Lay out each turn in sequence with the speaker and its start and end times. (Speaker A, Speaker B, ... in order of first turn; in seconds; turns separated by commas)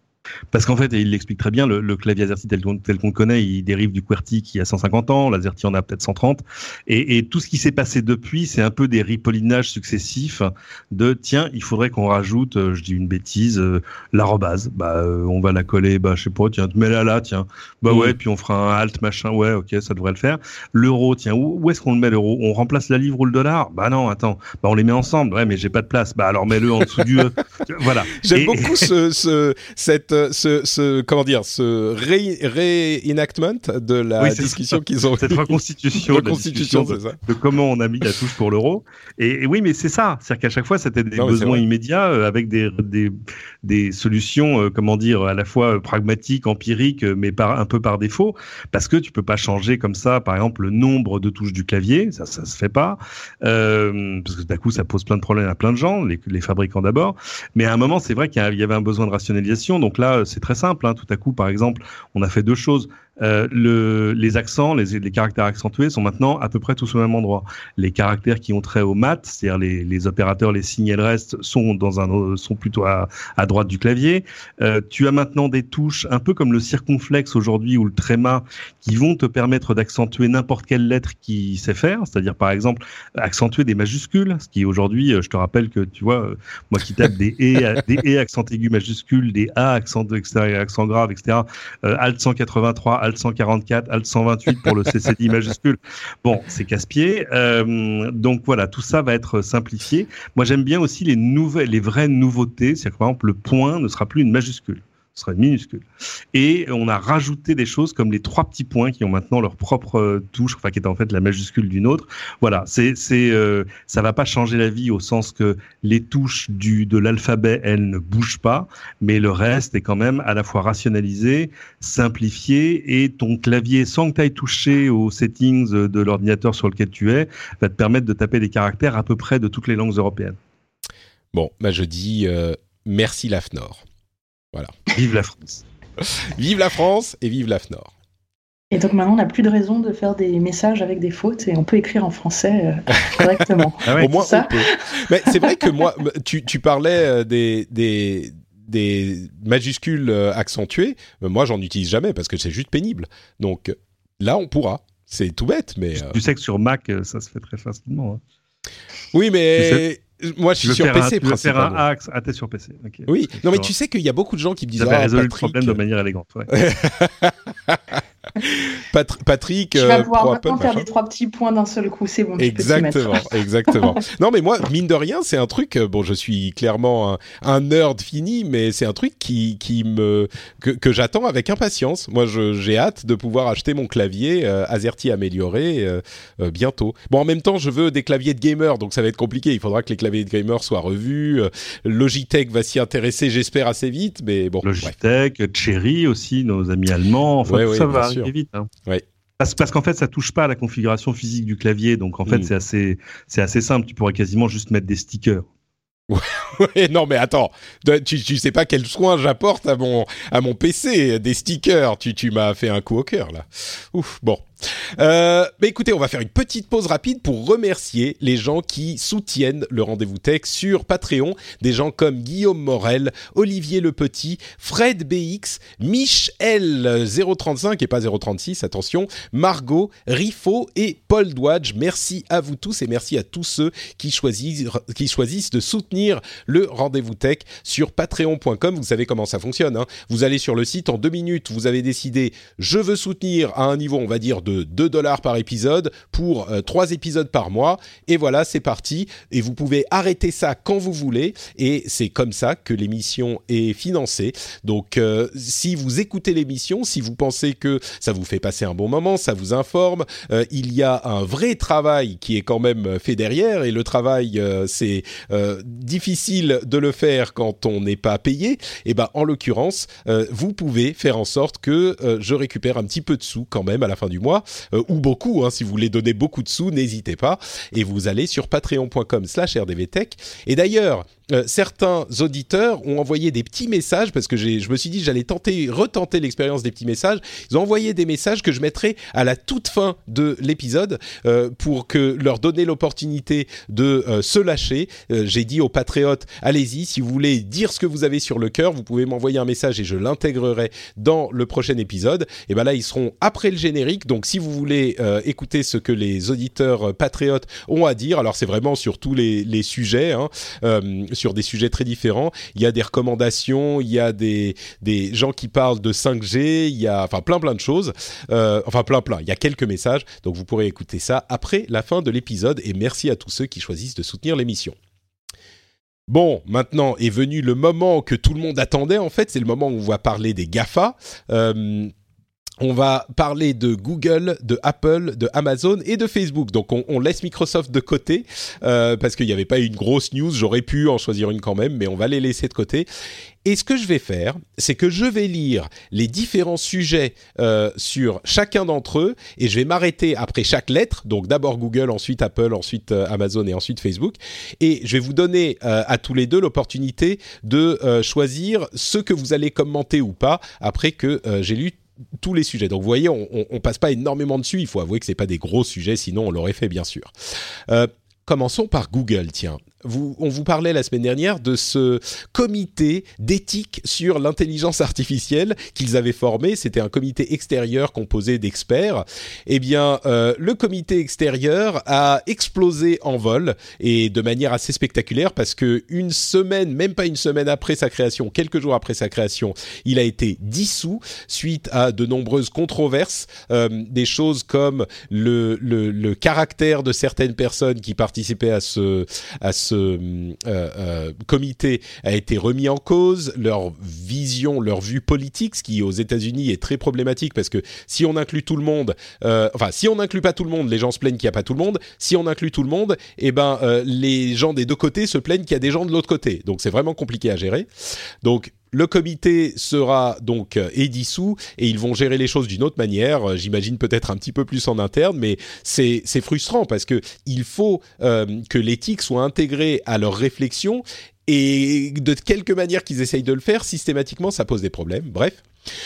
Speaker A: 0.5-28.9, Speaker B: 17.9-18.2, Speaker B: 28.2-37.2, Speaker A: 34.2-130.4, Speaker B: 41.2-41.6, Speaker B: 131.3-133.8, Speaker A: 134.9-135.6, Speaker B: 136.3-137.9, Speaker C: 138.7-144.6, Speaker B: 143.2-156.2, Speaker A: 143.9-144.1, Speaker A: 156.0-158.2, Speaker B: 159.1-161.8, Speaker A: 159.6-159.8, Speaker A: 160.6-163.7, Speaker B: 163.1-165.8, Speaker A: 164.8-166.6, Speaker B: 166.5-170.9, Speaker C: 169.8-173.8, Speaker B: 172.4-194.9, Speaker A: 194.6-198.7, Speaker B: 197.4-198.3, Speaker A: 199.4-205.4, Speaker B: 206.1-324.8, Speaker B: 326.1-331.9, Speaker B: 332.6-342.9, Speaker B: 343.4-367.1, Speaker B: 367.7-417.7, Speaker B: 418.2-435.4